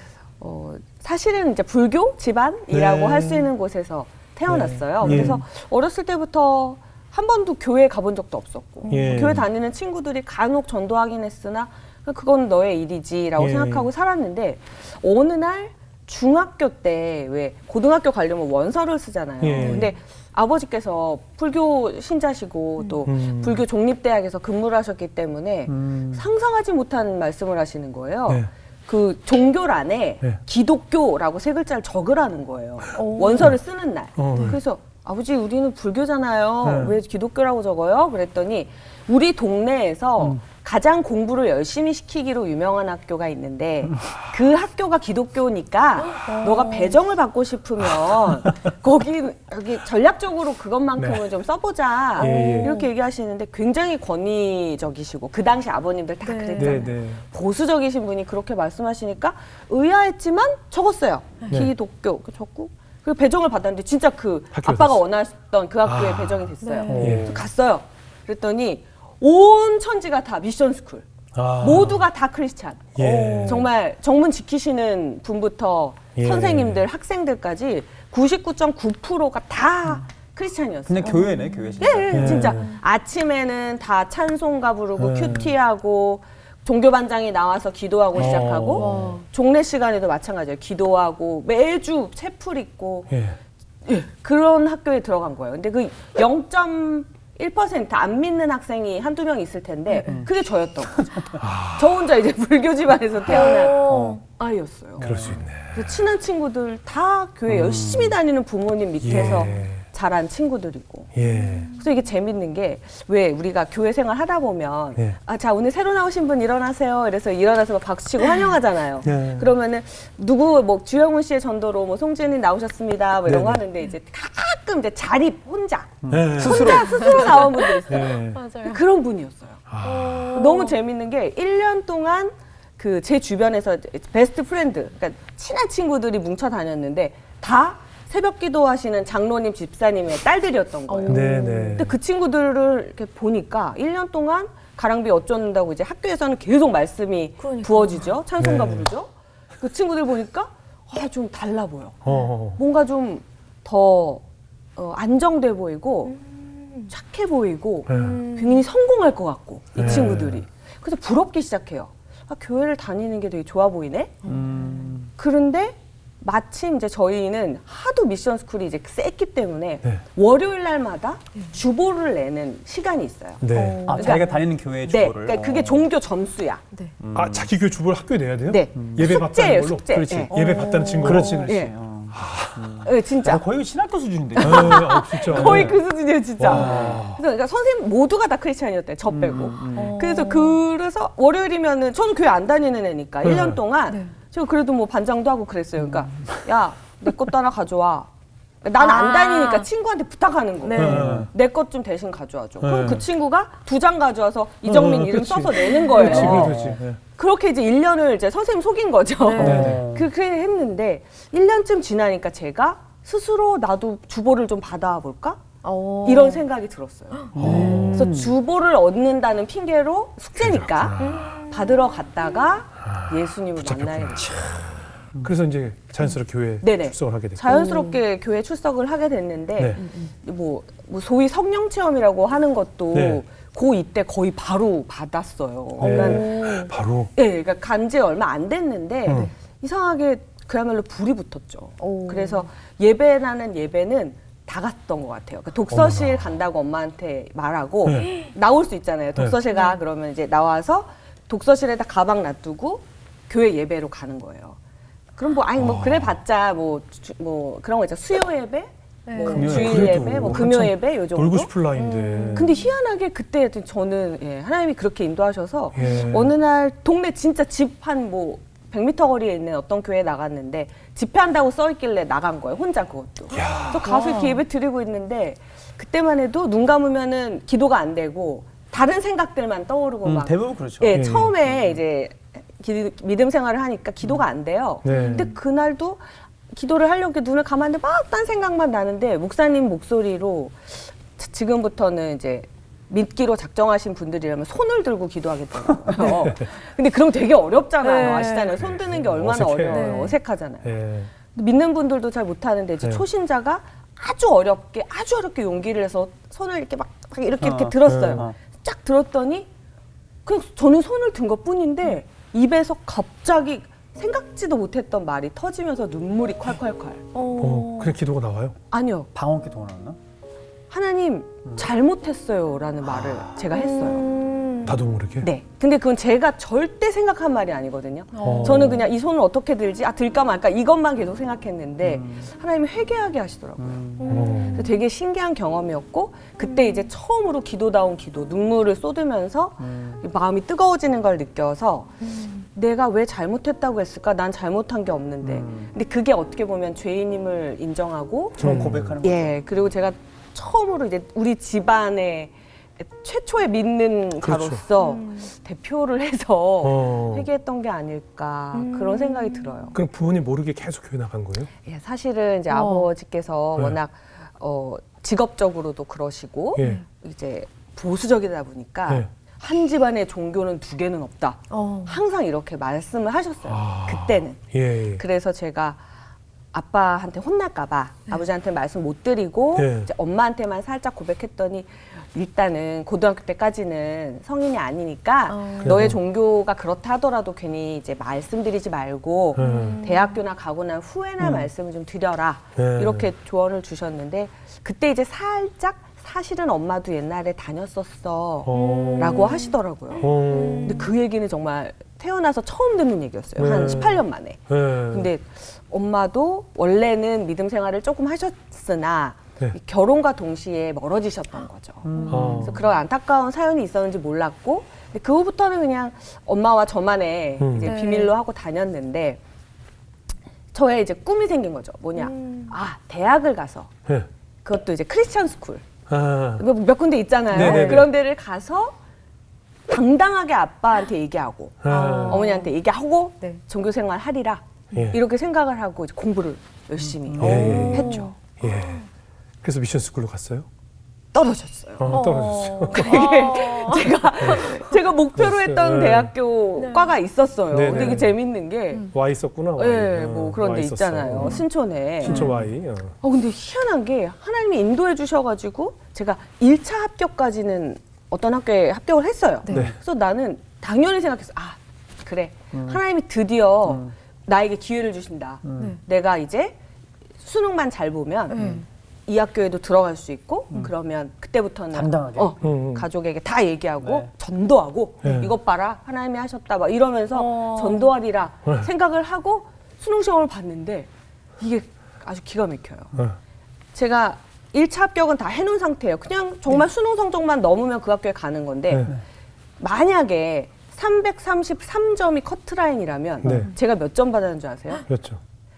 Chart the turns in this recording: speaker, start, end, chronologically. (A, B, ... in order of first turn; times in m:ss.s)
0:00.4-1:11.1 A
0:02.7-0:03.5 B
0:04.5-0:05.4 B
0:08.9-0:09.4 B
0:13.4-0:13.9 B
0:19.4-0:19.8 B
0:19.6-0:19.9 C
0:23.1-0:23.6 B
0:25.7-0:26.2 D
0:33.0-0:33.4 C
0:34.2-0:34.6 B
0:36.6-0:37.0 B
0:46.0-0:47.0 C
0:51.0-0:51.3 B
0:52.2-0:52.9 C
0:52.2-0:52.8 B
0:56.2-0:56.9 C
0:56.6-0:57.2 B
1:04.5-1:05.0 B
1:05.8-1:07.3 B
1:06.6-1:07.0 C
1:06.9-1:07.5 D
1:11.3-1:12.0 B
1:11.6-1:33.1 A
1:13.0-1:13.6 B
1:13.0-1:13.7 C
1:13.1-1:13.7 D
1:16.2-1:16.8 B
1:20.9-1:22.4 D
1:21.2-1:22.7 C
1:22.1-1:22.7 B
1:25.0-1:25.5 B
1:28.2-1:29.0 B
1:28.8-1:29.3 C
1:33.1-1:33.4 B
1:33.8-2:09.6 A
1:41.0-1:41.2 D
1:41.4-1:42.1 B
1:43.3-1:44.2 C
1:43.9-1:44.2 D
1:45.0-1:45.4 D
1:45.0-1:45.9 B
1:47.8-1:48.1 B
1:49.0-1:49.8 B
1:49.2-1:49.5 C
1:51.1-1:51.7 B
1:51.3-1:51.8 C
1:59.0-1:59.5 B
2:03.3-2:03.6 B
2:06.0-2:07.5 D
2:06.1-2:06.7 B
2:06.7-2:08.8 C
2:07.9-2:08.4 B
2:09.7-2:10.4 B
2:09.8-2:10.8 C
2:10.2-2:32.0 A
2:20.9-2:21.9 C
2:21.1-2:22.0 B
2:27.4-2:28.1 C
2:28.4-2:28.9 B
2:32.0-2:32.6 B
2:32.6-2:34.2 A
2:34.8-2:36.2 A
2:36.1-2:36.9 C
2:36.9-2:44.1 A
2:37.9-2:38.2 B
2:37.9-2:38.6 C
2:39.8-2:40.5 B
2:44.2-2:44.9 C
2:44.3-2:45.1 D
2:45.2-2:56.6 A
2:53.4-2:53.8 B
2:53.5-2:54.4 C
2:53.8-2:55.9 D
2:57.0-2:57.6 D
2:57.1-3:01.5 B
2:58.5-3:00.3 A
2:58.8-2:59.3 D
2:59.9-3:05.8 D
3:00.3-3:01.4 C
3:01.3-3:01.7 A
3:02.2-3:02.6 B
3:02.7-3:03.4 A
3:04.4-3:18.1 A
3:04.4-3:05.8 B
3:06.4-3:07.2 B
3:06.4-3:07.0 D
3:09.1-3:10.0 D
3:09.7-3:10.6 C
3:13.2-3:13.6 B
3:15.9-3:16.5 D
3:18.6-3:26.6 A
3:18.8-3:19.7 C
3:20.7-3:21.1 C
3:20.7-3:21.3 B
3:20.9-3:21.3 D
3:22.6-3:23.1 B
3:24.6-3:27.0 B
3:25.7-3:26.3 C
3:26.0-3:26.8 D
3:27.2-3:35.4 A
3:29.2-3:29.8 C
3:29.4-3:30.1 D
3:29.4-3:29.8 B
3:35.6-3:36.4 C
3:36.0-3:44.6 A
3:37.4-3:38.1 B
3:37.4-3:38.3 D
3:40.4-3:41.3 B
3:41.0-3:41.8 C
3:42.8-3:47.4 B
3:46.6-3:56.5 A
3:47.5-3:48.0 C
3:49.6-3:49.8 B
3:49.8-3:50.1 C
3:52.9-3:53.3 B
3:55.8-3:56.7 C
3:55.8-3:57.1 B
3:57.2-4:14.6 A
3:59.1-3:59.3 B
4:01.8-4:02.5 C
4:05.7-4:06.4 B
4:07.8-4:08.2 B
4:09.5-4:09.8 C
4:15.2-4:21.5 A
4:15.6-4:16.2 B
4:19.1-4:19.5 C
4:19.2-4:20.5 D
4:19.3-4:22.6 B
4:21.7-4:22.6 C
4:22.3-5:00.7 A
4:25.8-4:26.3 B
4:25.8-4:26.0 C
4:33.3-4:33.8 B
4:33.8-4:34.4 C
4:40.0-4:41.8 D
4:40.9-4:41.3 B
4:44.8-4:45.2 B
4:44.9-4:45.3 C
4:57.8-4:58.6 C
4:58.6-4:59.9 B
4:59.7-5:00.2 C
5:00.6-5:01.1 B
5:01.3-5:09.5 A
5:07.4-5:08.4 D
5:07.9-5:08.2 B
5:10.2-5:17.0 A
5:17.1-5:18.0 C
5:17.4-5:18.6 B
5:18.7-5:19.1 A
5:19.1-5:20.0 D
5:20.7-5:24.1 A
5:22.9-5:23.4 D
5:23.5-5:24.8 C
5:24.6-5:25.3 B
5:25.2-5:42.0 A
5:28.1-5:28.9 C
5:28.2-5:28.6 B
5:31.8-5:32.3 D
5:33.6-5:34.2 D
5:34.0-5:34.8 C
5:34.1-5:34.7 B
5:36.4-5:36.9 C
5:39.6-5:40.0 D
5:42.0-5:42.4 C
5:42.6-5:59.8 A
5:45.2-5:45.7 D
5:48.4-5:49.4 D
5:48.4-5:49.0 B
5:54.2-5:54.6 B
5:54.8-5:55.3 C
5:56.6-5:57.3 B
5:58.5-5:59.6 C
5:59.7-6:01.5 B
6:01.6-6:14.4 A
6:02.5-6:02.9 C
6:06.6-6:06.8 B
6:06.6-6:06.8 C
6:11.5-6:12.0 C
6:13.4-6:15.0 B
6:14.9-6:15.8 A
6:16.5-6:59.2 A
6:19.6-6:19.9 B
6:25.3-6:25.8 C
6:25.6-6:26.0 B
6:29.3-6:29.8 B
6:29.4-6:30.1 C
6:31.2-6:31.5 B
6:32.6-6:33.1 B
6:38.4-6:39.0 B
6:38.5-6:39.5 C
6:40.0-6:40.8 B
6:40.2-6:40.9 C
6:43.4-6:45.1 B
6:51.8-6:52.6 D
6:52.0-6:52.4 C
6:52.1-6:52.7 B
6:57.4-6:57.7 B
6:57.6-6:58.1 C
7:00.5-7:03.7 A
7:02.0-7:02.5 C
7:04.4-7:05.7 A
7:05.9-7:06.4 B
7:06.4-7:08.8 A
7:07.3-7:07.9 B
7:07.4-7:07.9 D
7:07.4-7:07.8 C
7:09.7-7:18.2 A
7:11.6-7:12.2 B
7:11.7-7:12.5 C
7:14.7-7:15.0 B
7:17.0-7:18.0 D
7:17.2-7:18.9 B
7:17.2-7:18.8 C
7:19.4-7:20.5 B
7:21.1-7:22.1 A
7:21.8-7:23.1 B
7:21.9-7:24.6 C
7:22.7-7:28.9 A
7:24.2-7:24.5 B
7:25.2-7:26.1 B
7:26.6-7:26.9 C
7:27.5-7:28.1 B
7:27.7-7:28.0 C
7:28.9-7:31.4 B
7:29.6-7:32.2 A
7:32.0-7:33.0 B
7:32.1-7:32.3 C
7:33.0-7:46.6 A
7:39.5-7:39.8 B
7:42.5-7:42.8 D
7:43.7-7:43.9 D
7:45.4-7:45.8 D
7:47.2-7:48.4 A
7:48.3-7:48.6 C
7:48.4-7:48.6 D
7:49.1-8:03.0 A
7:51.7-7:52.4 D
7:52.4-7:52.9 B
7:53.8-7:54.1 D
7:55.0-7:55.3 B
7:57.1-7:57.9 C
8:03.7-8:08.9 A
8:08.7-8:09.0 B
8:09.6-8:14.8 A
8:13.2-8:13.5 B
8:14.9-8:15.2 B